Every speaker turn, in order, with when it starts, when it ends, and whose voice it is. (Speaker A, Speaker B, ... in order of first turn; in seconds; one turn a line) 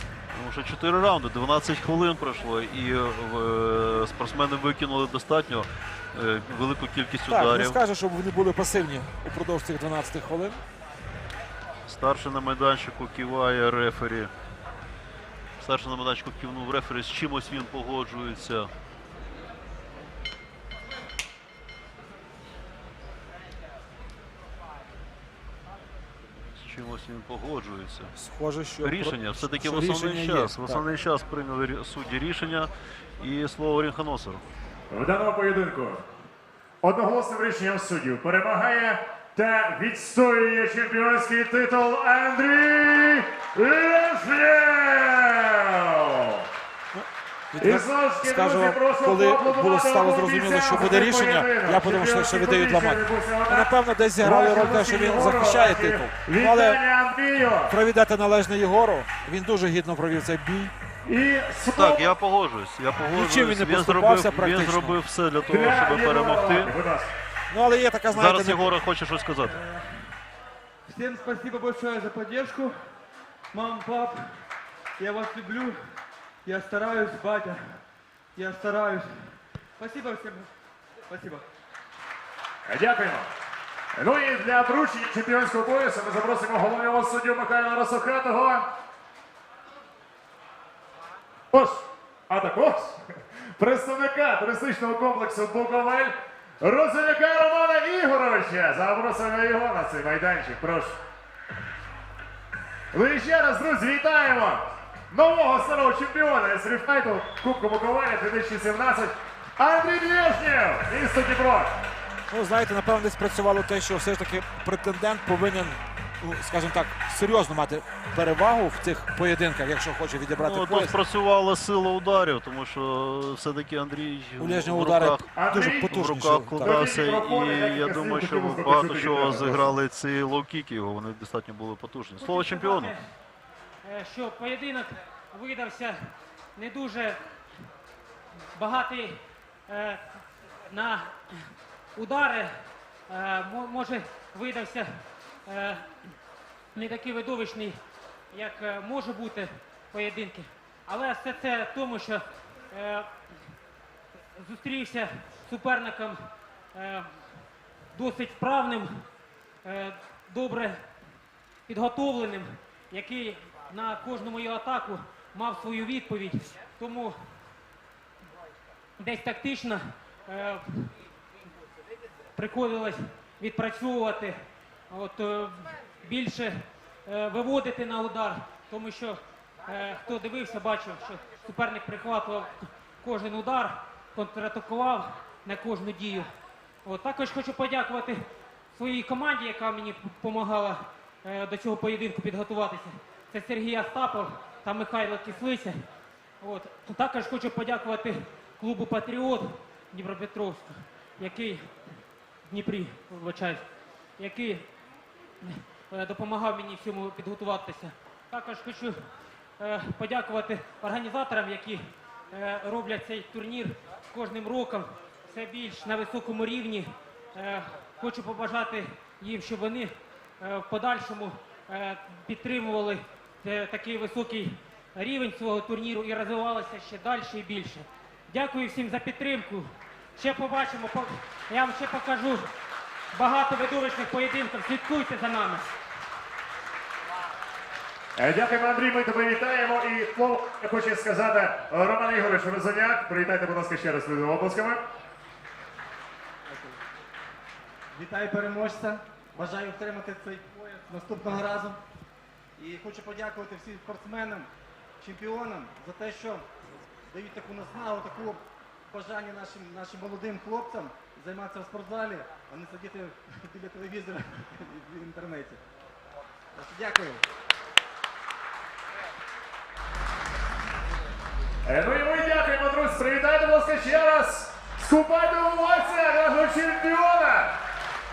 Speaker A: 0.3-7.8
Speaker B: 7.3-10.6
Speaker A: 11.9-14.3
Speaker A: 15.6-18.7
Speaker A: 26.5-28.1
Speaker B: 28.1-30.8
Speaker A: 28.8-34.4
Speaker C: 34.9-36.0
Speaker C: 36.8-46.5
Speaker B: 46.9-56.8
Speaker C: 47.6-57.7
Speaker B: 57.7-60.7
Speaker C: 61.0-62.1
Speaker A: 61.7-66.7
Speaker B: 63.1-65.0
Speaker C: 65.5-67.1
Speaker B: 67.5-68.8
Speaker A: 68.1-69.6
Speaker D: 69.4-70.1
Speaker D: 70.8-73.0
Speaker D: 73.5-74.4
Speaker D: 75.0-77.8
Speaker D: 78.3-80.5
Speaker D: 81.1-81.4
Speaker C: 82.7-83.3
Speaker C: 83.9-88.7
Speaker C: 91.5-101.0
Speaker C: 102.9-111.8
Speaker B: 112.3-121.0
Speaker A: 120.4-132.9
Speaker B: 124.4-126.9
Speaker C: 125.4-125.8
Speaker C: 126.6-129.7
Speaker E: 132.2-133.1
Speaker E: 133.8-137.2
Speaker E: 138.5-140.0
Speaker E: 140.7-141.4
Speaker E: 141.9-142.5
Speaker E: 143.1-145.9
Speaker E: 146.7-147.8
Speaker E: 148.3-153.1
Speaker E: 154.3-156.2
Speaker E: 156.7-157.1
Speaker E: 157.9-159.1
Speaker E: 159.6-160.8
Speaker E: 161.7-167.1
Speaker E: 169.0-170.9
Speaker E: 172.3-174.4
Speaker E: 174.9-186.3
Speaker E: 186.8-188.2
Speaker E: 188.7-195.8
Speaker E: 196.4-201.7
Speaker E: 202.5-203.7
Speaker E: 204.2-204.7
Speaker E: 205.4-209.0
Speaker E: 209.6-232.5
Speaker E: 233.1-235.7
Speaker C: 238.2-244.8
Speaker F: 246.4-246.8
Speaker F: 247.9-251.8
Speaker F: 252.6-254.5
Speaker F: 255.0-256.5
Speaker F: 257.1-265.6
Speaker F: 266.5-267.2
Speaker C: 271.6-277.6